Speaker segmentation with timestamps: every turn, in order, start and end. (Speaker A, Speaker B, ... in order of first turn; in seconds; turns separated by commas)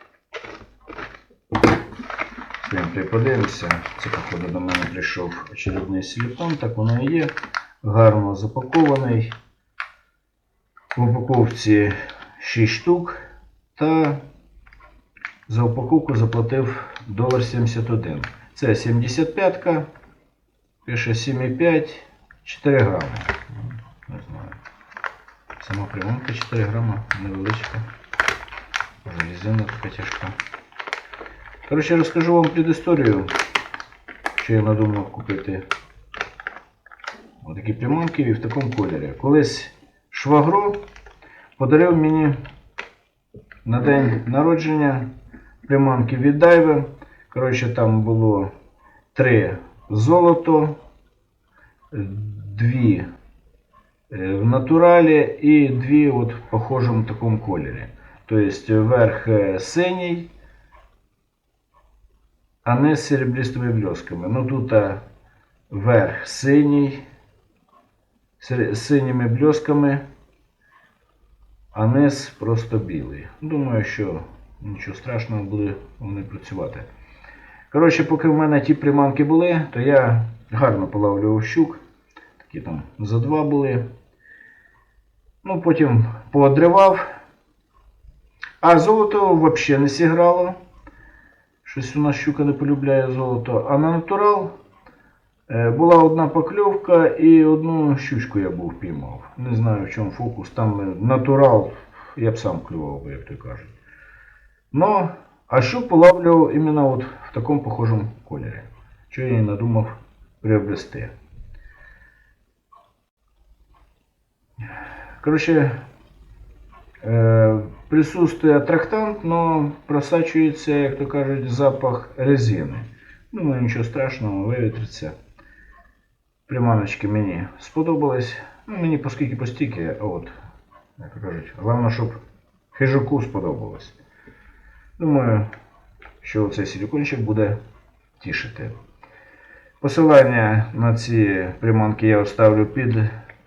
Speaker A: 2.6-9.3, Speaker A: 10.9-13.2, Speaker A: 13.7-14.2, Speaker A: 15.5-19.9, Speaker A: 20.8-23.4, Speaker A: 24.1-24.6, Speaker A: 25.6-27.8, Speaker A: 29.0-30.4, Speaker A: 31.6-33.3, Speaker A: 34.4-35.6, Speaker A: 37.4-40.8, Speaker A: 41.6-42.4, Speaker A: 43.6-45.1, Speaker A: 45.6-48.5, Speaker A: 49.1-50.8, Speaker A: 51.9-53.1, Speaker A: 54.1-60.3, Speaker A: 62.6-65.0, Speaker A: 65.7-67.0, Speaker A: 68.4-70.0, Speaker A: 71.7-76.9, Speaker A: 77.7-81.8, Speaker A: 82.4-83.8, Speaker A: 85.4-87.1, Speaker A: 88.6-90.6, Speaker A: 91.6-94.5, Speaker A: 95.5-103.7, Speaker A: 104.7-111.1, Speaker A: 115.2-115.8, Speaker A: 117.0-125.1, Speaker A: 126.5-130.3, Speaker A: 131.0-132.2, Speaker A: 132.7-133.9, Speaker A: 135.0-135.5, Speaker A: 136.2-137.6, Speaker A: 138.2-138.7, Speaker A: 139.8-143.1